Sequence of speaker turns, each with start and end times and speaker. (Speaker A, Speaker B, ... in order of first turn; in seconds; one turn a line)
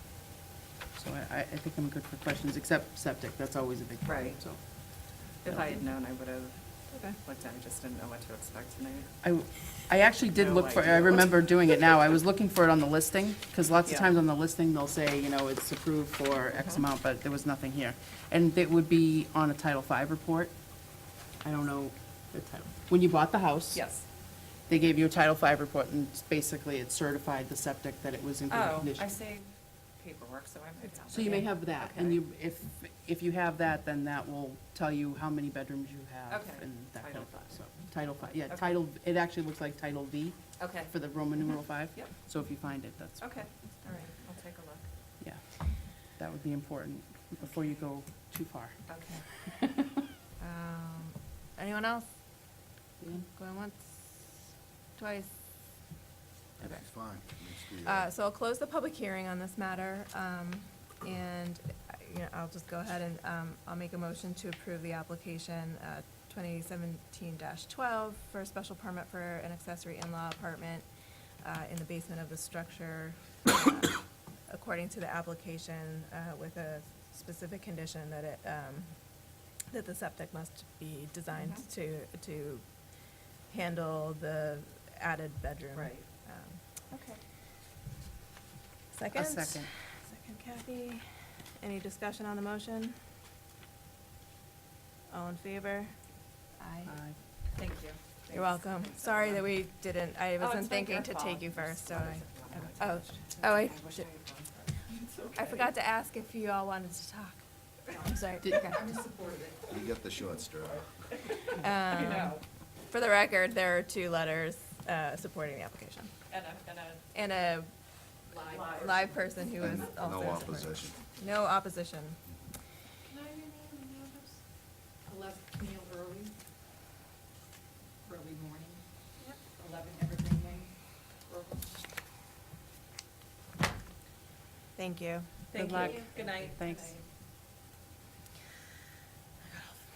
Speaker A: 0.9-5.8
Speaker B: 4.0-4.4
Speaker B: 5.0-9.1
Speaker A: 9.2-29.1
Speaker B: 10.3-11.3
Speaker B: 16.5-16.8
Speaker B: 23.7-24.1
Speaker B: 28.5-32.2
Speaker A: 31.1-43.4
Speaker B: 36.3-37.5
Speaker B: 40.6-40.9
Speaker B: 43.2-44.8
Speaker A: 45.2-49.8
Speaker B: 48.9-49.2
Speaker C: 50.4-52.7
Speaker C: 53.2-55.4
Speaker D: 56.6-58.1
Speaker C: 57.8-70.9
Speaker C: 71.4-79.0
Speaker C: 79.7-82.7
Speaker C: 83.5-86.6
Speaker B: 85.7-86.0
Speaker B: 86.9-87.2
Speaker C: 88.9-91.0
Speaker A: 89.1-89.7
Speaker C: 91.6-93.0
Speaker C: 95.1-95.9
Speaker C: 96.6-96.9
Speaker A: 96.9-97.2
Speaker B: 97.5-99.4
Speaker C: 98.3-104.0
Speaker B: 100.4-105.5
Speaker C: 105.3-109.0
Speaker D: 109.7-110.9
Speaker C: 111.5-116.1
Speaker B: 111.9-112.4
Speaker B: 116.3-117.0
Speaker C: 117.1-117.7
Speaker B: 118.3-118.8
Speaker C: 118.7-122.2
Speaker D: 119.6-121.0
Speaker E: 125.1-126.3
Speaker E: 128.1-128.6
Speaker E: 130.0-130.6
Speaker C: 134.8-135.4
Speaker B: 135.5-137.0
Speaker A: 135.5-136.9